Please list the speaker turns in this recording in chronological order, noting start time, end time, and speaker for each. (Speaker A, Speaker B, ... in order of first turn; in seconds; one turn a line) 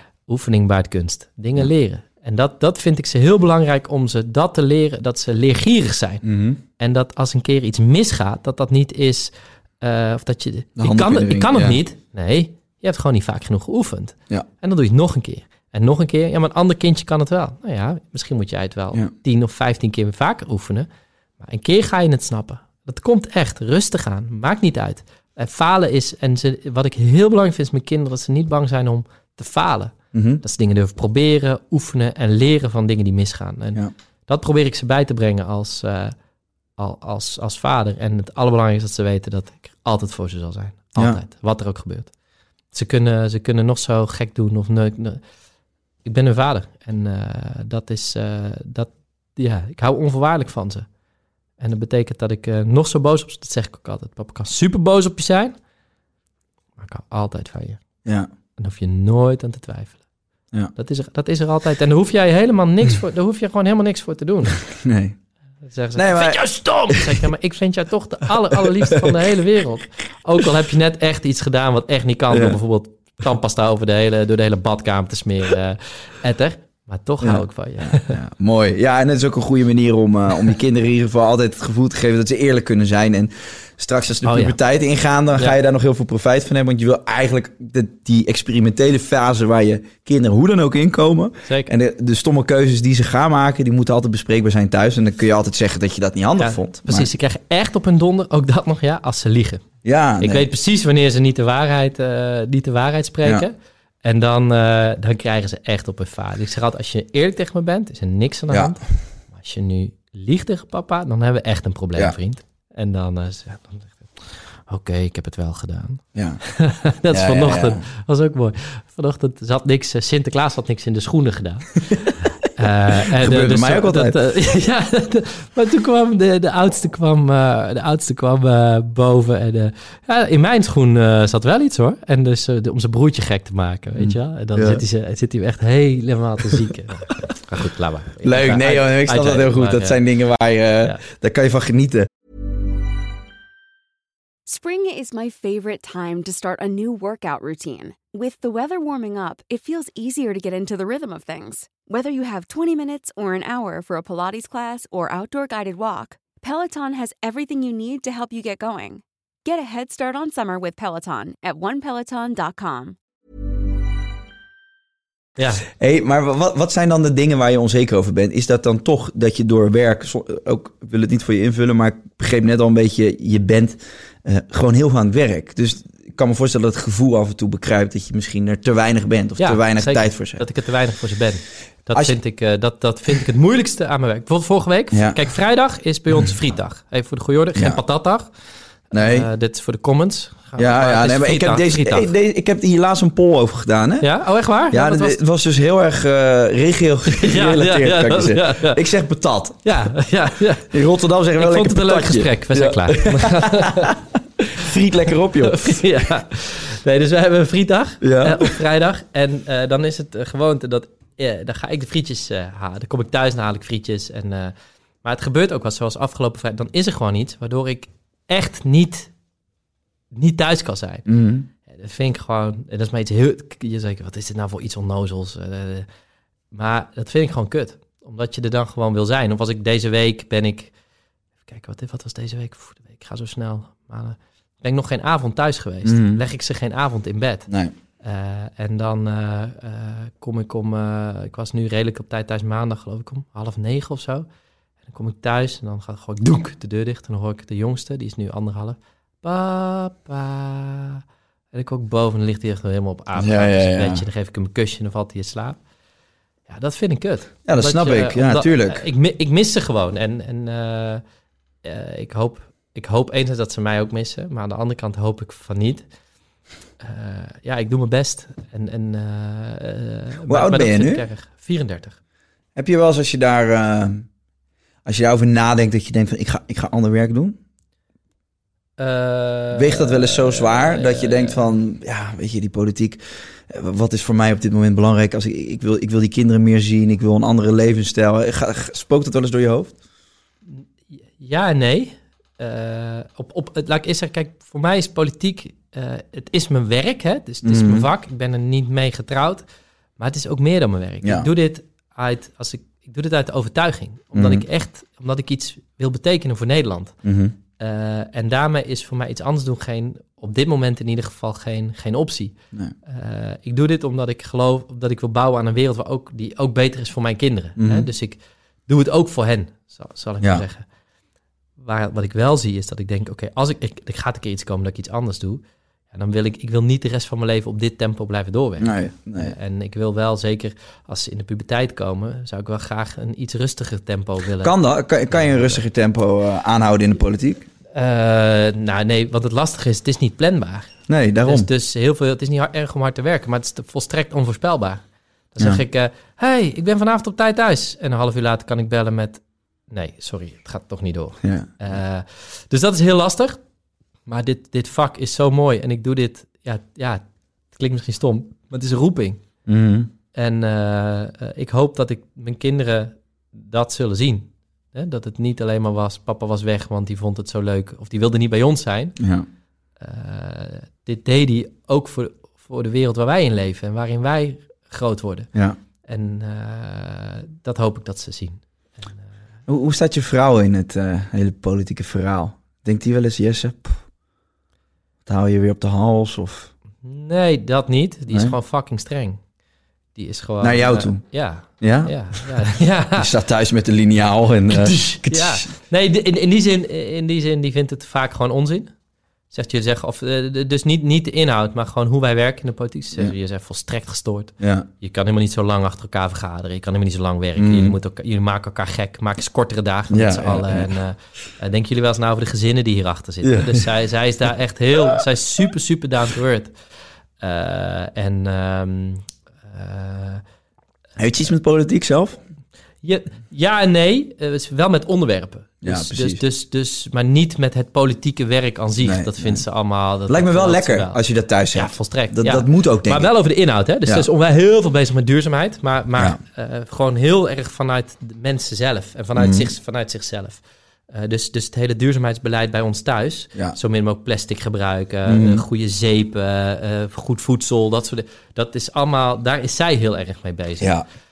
Speaker A: 0.3-6.2
Speaker B: 6.2-6.6
Speaker A: 6.8-20.9
Speaker B: 10.8-11.8
Speaker A: 21.4-36.1
Speaker B: 30.1-30.4
Speaker A: 36.8-42.1
Speaker A: 42.7-45.2
Speaker A: 46.0-50.9
Speaker A: 51.6-55.5
Speaker A: 56.8-57.8
Speaker A: 58.6-60.0
Speaker A: 60.7-64.6
Speaker B: 64.7-65.2
Speaker A: 65.6-78.2
Speaker B: 66.0-67.2
Speaker B: 68.5-69.2
Speaker B: 72.3-72.6
Speaker B: 77.2-97.1
Speaker A: 84.2-84.6
Speaker A: 96.4-99.6
Speaker B: 99.8-100.5
Speaker A: 100.2-121.7
Speaker B: 108.5-108.8
Speaker B: 116.1-116.4
Speaker B: 117.1-117.8
Speaker A: 122.5-140.0
Speaker B: 123.1-124.1
Speaker B: 134.0-134.8
Speaker B: 138.2-142.1
Speaker C: 144.4-163.0
Speaker A: 165.4-165.6
Speaker B: 165.8-180.4
Speaker A: 179.4-188.3
Speaker B: 184.9-185.2
Speaker B: 188.9-189.3
Speaker A: 188.9-192.1
Speaker B: 190.6-194.1
Speaker A: 194.0-195.2
Speaker B: 194.7-199.7
Speaker A: 197.1-198.8
Speaker A: 199.6-200.7
Speaker B: 200.7-203.9
Speaker A: 201.4-203.9
Speaker B: 204.5-205.8
Speaker A: 205.4-219.1
Speaker B: 208.0-208.5
Speaker A: 220.1-221.1
Speaker B: 221.1-221.5
Speaker A: 221.7-225.9
Speaker A: 226.5-230.7
Speaker A: 231.5-237.5
Speaker B: 235.8-236.2
Speaker A: 238.0-244.3
Speaker A: 244.8-251.0
Speaker A: 251.5-255.6
Speaker B: 253.2-254.0
Speaker A: 256.5-261.0
Speaker B: 257.4-258.8
Speaker A: 261.6-265.8
Speaker A: 266.8-272.0
Speaker B: 270.3-271.0
Speaker B: 272.6-274.1
Speaker B: 274.8-277.4
Speaker A: 278.8-281.4
Speaker B: 279.5-289.8
Speaker A: 291.2-299.4
Speaker B: 297.4-297.9
Speaker A: 300.0-306.9
Speaker B: 304.1-304.4
Speaker B: 307.0-307.3
Speaker A: 307.6-320.6
Speaker B: 317.6-317.9
Speaker A: 321.6-334.6
Speaker B: 328.6-329.3
Speaker B: 334.4-337.5
Speaker A: 335.1-335.6
Speaker A: 337.7-340.7
Speaker B: 340.9-341.5
Speaker A: 341.2-344.8
Speaker A: 345.3-353.4
Speaker B: 351.2-351.5
Speaker A: 354.1-357.0
Speaker A: 357.5-359.2
Speaker B: 359.4-359.9
Speaker A: 360.1-369.0
Speaker B: 369.0-369.2
Speaker A: 369.8-375.3
Speaker A: 375.9-378.4
Speaker B: 379.5-383.8
Speaker B: 385.1-386.5
Speaker A: 386.8-389.2
Speaker A: 389.9-393.1
Speaker B: 390.4-391.0
Speaker B: 391.6-392.4
Speaker B: 393.0-395.5
Speaker A: 394.5-398.7
Speaker A: 399.3-416.5
Speaker B: 404.4-404.7
Speaker B: 407.4-407.7
Speaker B: 409.9-410.8
Speaker B: 413.2-413.6
Speaker A: 417.2-420.2
Speaker B: 421.0-422.2
Speaker A: 422.8-431.0
Speaker B: 425.6-426.2
Speaker B: 428.8-429.4
Speaker B: 430.1-433.1
Speaker A: 431.5-450.8
Speaker B: 439.1-439.4
Speaker B: 445.1-445.4
Speaker B: 450.6-450.8